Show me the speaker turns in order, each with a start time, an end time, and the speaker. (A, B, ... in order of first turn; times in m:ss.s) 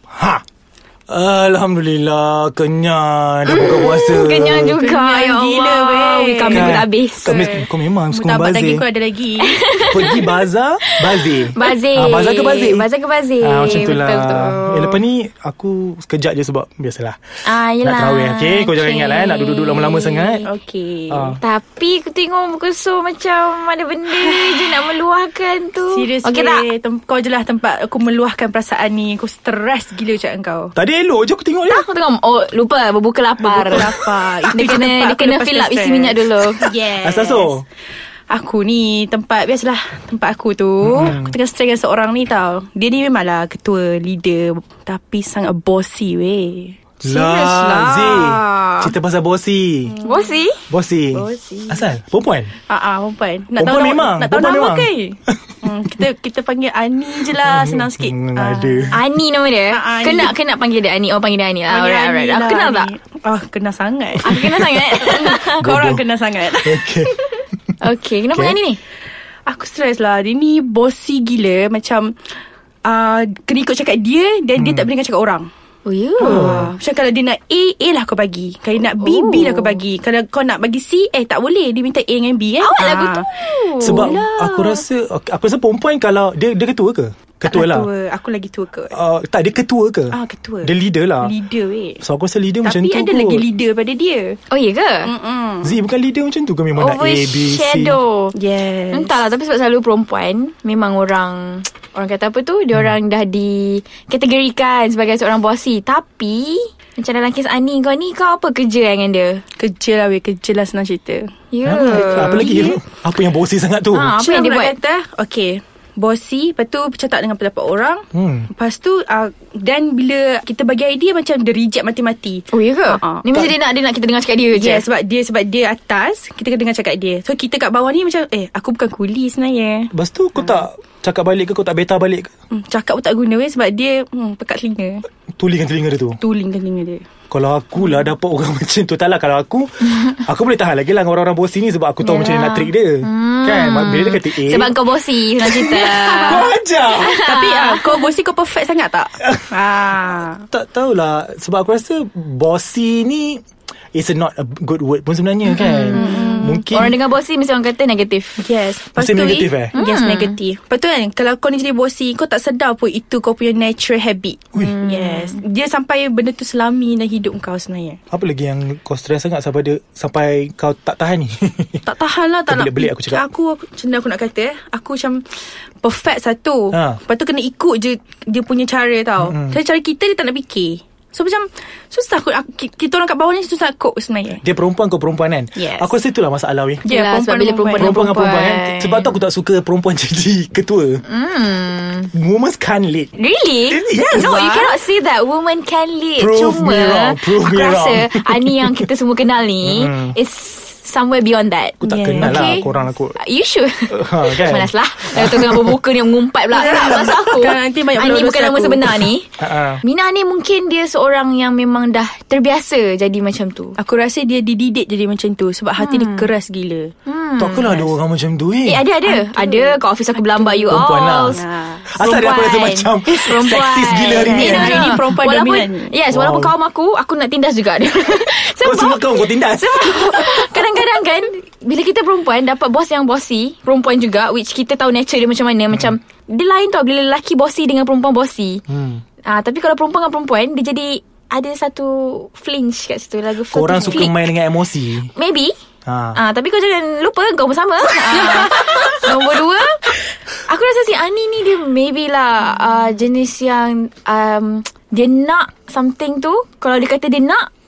0:00.1-0:00.4 A
0:01.1-0:04.8 A
0:03.4-0:07.6 B
0:04.8-0:07.5 C
0:06.5-0:08.8 A
0:08.1-0:09.6 C
0:09.4-0:10.3 B
0:09.9-0:12.9 A
0:10.8-0:15.0 B
0:13.4-0:17.2 A
0:17.4-0:20.5 B
0:17.8-0:20.4 A
0:20.4-0:21.4 C
0:21.1-0:21.4 A
0:21.4-0:26.6 B
0:24.1-0:24.8 C
0:25.9-0:30.7 C
0:30.7-0:31.8 A
0:31.6-0:33.9 B
0:33.4-0:37.6 C
0:34.5-0:36.6 B
0:36.6-0:37.6 A
0:38.3-0:46.8 C
0:40.8-0:41.3 A
0:47.0-0:48.9 B
0:47.0-0:50.0 A
0:49.9-0:50.4 C
0:50.0-0:50.6 B
0:50.7-0:52.5 A
0:51.1-0:51.9 C
0:52.7-0:59.0 C
0:53.6-0:55.6 A
0:57.3-0:59.0 A
0:58.9-1:02.9 B
0:59.7-1:00.4 C
1:01.7-1:04.4 C
1:04.2-1:05.6 B
1:04.3-1:07.1 A
1:05.0-1:07.1 C
1:07.8-1:08.8 B
1:08.3-1:08.6 A
1:09.4-1:12.2 C
1:12.8-1:15.5 C
1:14.6-1:14.9 A
1:15.8-1:16.6 B
1:16.2-1:24.8 C
1:16.2-1:16.7 A
1:19.0-1:19.8 B
1:22.6-1:24.2 B
1:23.8-1:27.9 A
1:27.4-1:28.9 C
1:28.9-1:31.3 A
1:30.1-1:32.0 C
1:32.0-1:33.4 A
1:32.6-1:34.4 C
1:34.5-1:35.1 B
1:35.0-1:35.8 C
1:35.6-1:38.0 A
1:36.7-1:38.3 B
1:38.3-1:39.2 C
1:38.9-1:49.4 B
1:49.6-1:52.8 C
1:51.5-1:52.4 B
1:51.6-1:54.2 A
1:53.9-1:54.7 B
1:54.2-2:03.2 C
1:58.1-1:58.5 A
2:02.5-2:04.8 B
2:04.5-2:10.6 C
2:09.9-2:12.3 A
2:12.5-2:15.0 C
2:15.4-2:16.2 A
2:16.2-2:17.0 C
2:17.3-2:24.7 A
2:22.0-2:26.4 B
2:25.4-2:27.1 A
2:26.2-2:30.4 C
2:27.0-2:27.9 B
2:29.2-2:29.5 A
2:30.5-2:33.4 A
2:33.9-2:37.0 A
2:35.4-2:38.4 B
2:35.9-2:36.6 C
2:38.4-2:48.0 C
2:39.0-2:39.7 A
2:39.7-2:40.4 B
2:44.6-2:45.4 B
2:48.1-2:51.8 A
2:51.8-3:04.4 C
2:52.5-2:53.2 A
2:56.7-2:57.0 A
2:59.2-2:59.6 A
3:04.4-3:06.8 A
3:06.8-3:08.0 C
3:06.8-3:09.1 B
3:07.7-3:11.0 A
3:11.0-3:12.1 B
3:12.1-3:13.1 A
3:13.1-3:33.8 B
3:13.7-3:14.7 A
3:16.2-3:18.8 A
3:19.6-3:20.2 A
3:21.8-3:22.8 C
3:21.8-3:23.2 A
3:23.9-3:25.8 A
3:26.5-3:29.0 C
3:29.0-3:29.8 A
3:33.8-3:36.9 C
3:35.8-3:36.3 B
3:37.0-3:37.8 B
3:37.4-3:38.8 A
3:38.6-3:41.4 B
3:39.0-3:41.9 C
3:40.7-3:45.0 A
3:42.0-3:58.6 B
3:44.1-3:45.9 C
3:46.1-3:46.5 A
3:48.6-3:50.4 A
3:58.7-3:59.0 A
3:59.2-4:04.3 B
4:03.5-4:05.1 A
4:05.1-4:05.5 B
4:05.8-4:06.2 A
4:06.1-4:09.9 B
4:08.1-4:08.9 C
4:10.5-4:17.5 B